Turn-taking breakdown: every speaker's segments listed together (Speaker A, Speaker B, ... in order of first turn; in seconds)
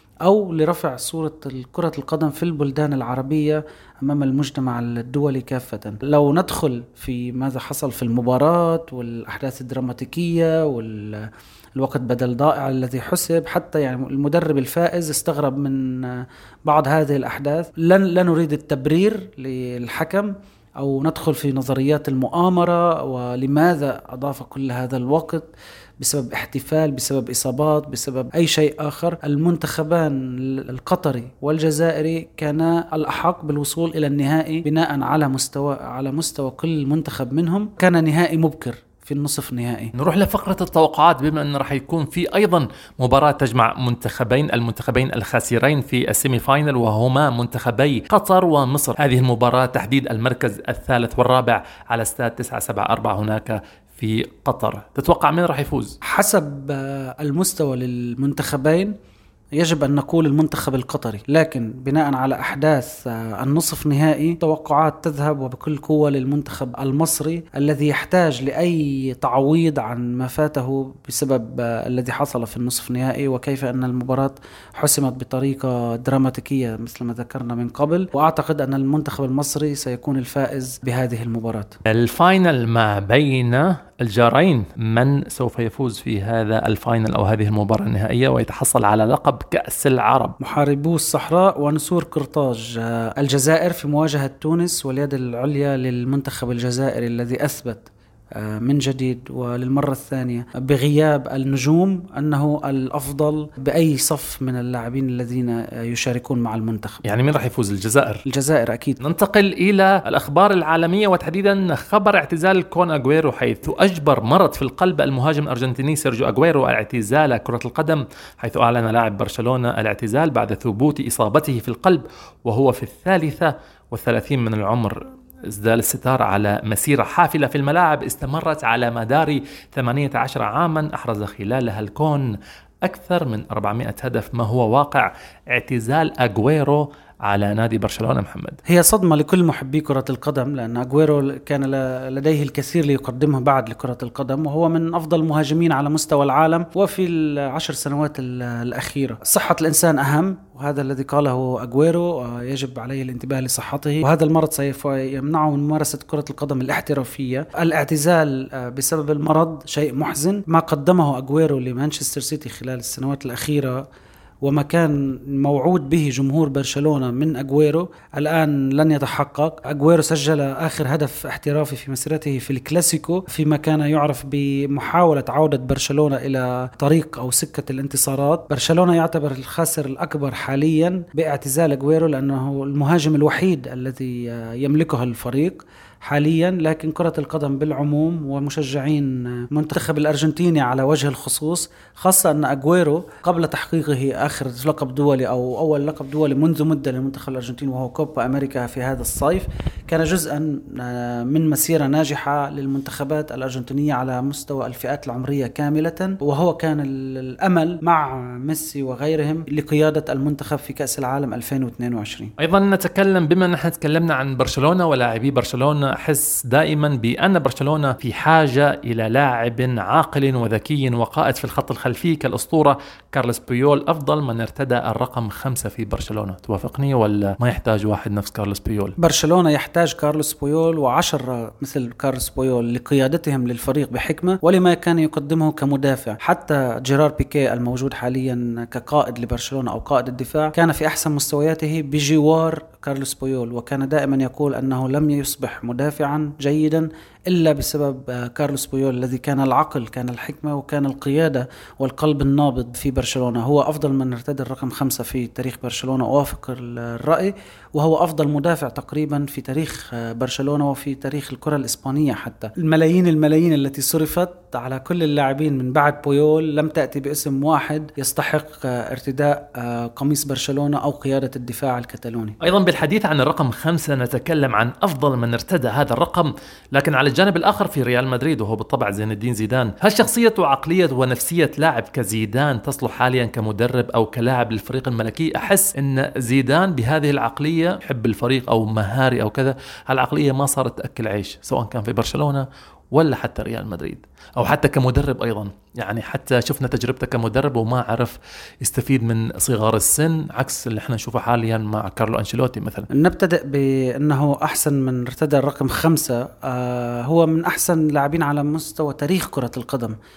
Speaker A: 0.2-39.9, 56.0-58.9, 59.6-81.8, 90.4-107.0, 108.3-109.0, 138.7-163.9, 164.4-212.3, 229.0-272.4, 302.9-309.9
Speaker B: 40.0-56.0, 81.9-90.3, 107.0-108.2, 109.0-132.3, 132.8-138.6, 212.4-229.0, 272.4-302.9